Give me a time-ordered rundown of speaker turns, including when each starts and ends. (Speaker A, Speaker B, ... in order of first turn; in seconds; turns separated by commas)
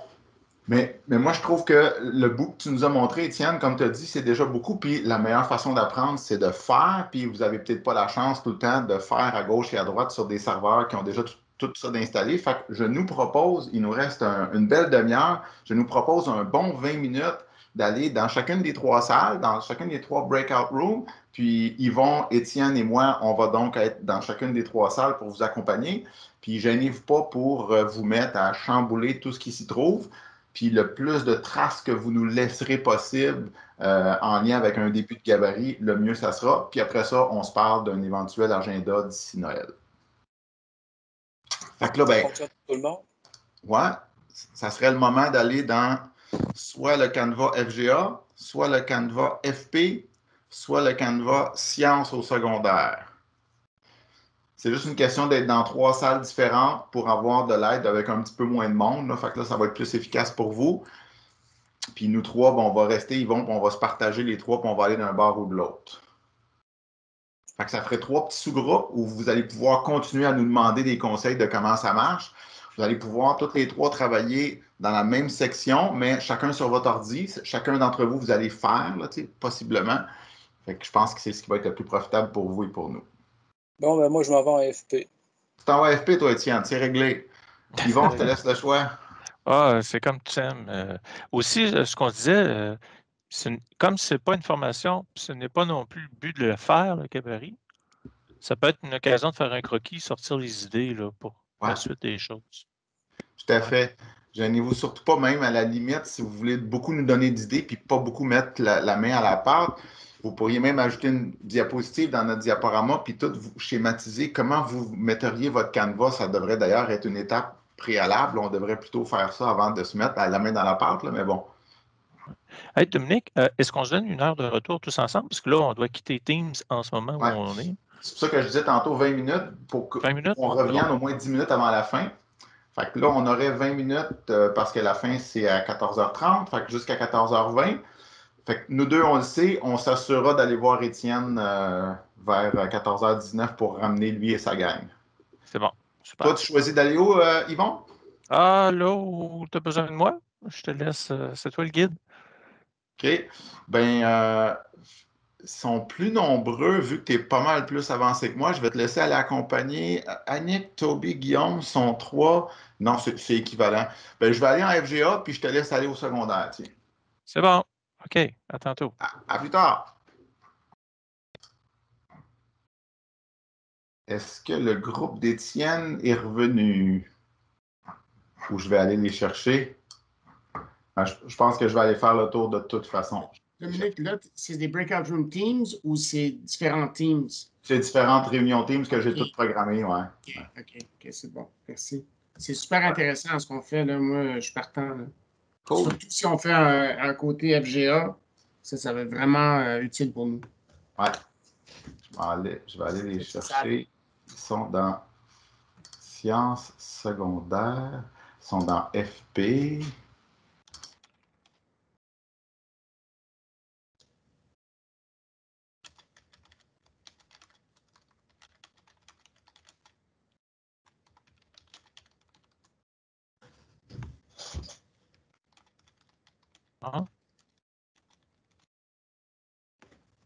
Speaker A: 0.7-39.7, Speaker A: 41.8-42.3, Speaker B: 42.1-43.0, Speaker A: 43.6-44.0, Speaker A: 44.5-53.1, Speaker A: 54.6-60.8, Speaker A: 61.9-66.0, Speaker A: 67.6-80.0, Speaker A: 80.6-83.0, Speaker B: 83.8-85.1, Speaker A: 85.6-87.3, Speaker C: 87.8-88.3, Speaker A: 87.8-88.9, Speaker C: 89.5-92.8, Speaker C: 93.3-97.6, Speaker C: 98.4-102.6, Speaker A: 103.4-121.5, Speaker C: 122.7-127.8, Speaker A: 128.0-132.1, Speaker C: 130.0-130.8, Speaker A: 132.7-137.8, Speaker A: 138.4-144.9, Speaker C: 145.5-146.3, Speaker A: 146.2-147.8, Speaker C: 148.3-152.0, Speaker A: 153.0-154.6, Speaker A: 155.4-166.7, Speaker C: 167.3-168.9, Speaker A: 169.0-169.9, Speaker A: 174.1-177.1, Speaker A: 178.5-179.8, Speaker A: 180.9-183.8, Speaker D: 183.6-187.5, Speaker A: 187.6-190.4, Speaker D: 190.3-195.1, Speaker A: 195.7-196.0, Speaker D: 195.8-200.4, Speaker A: 202.1-205.0, Speaker D: 203.2-203.7, Speaker A: 206.0-209.9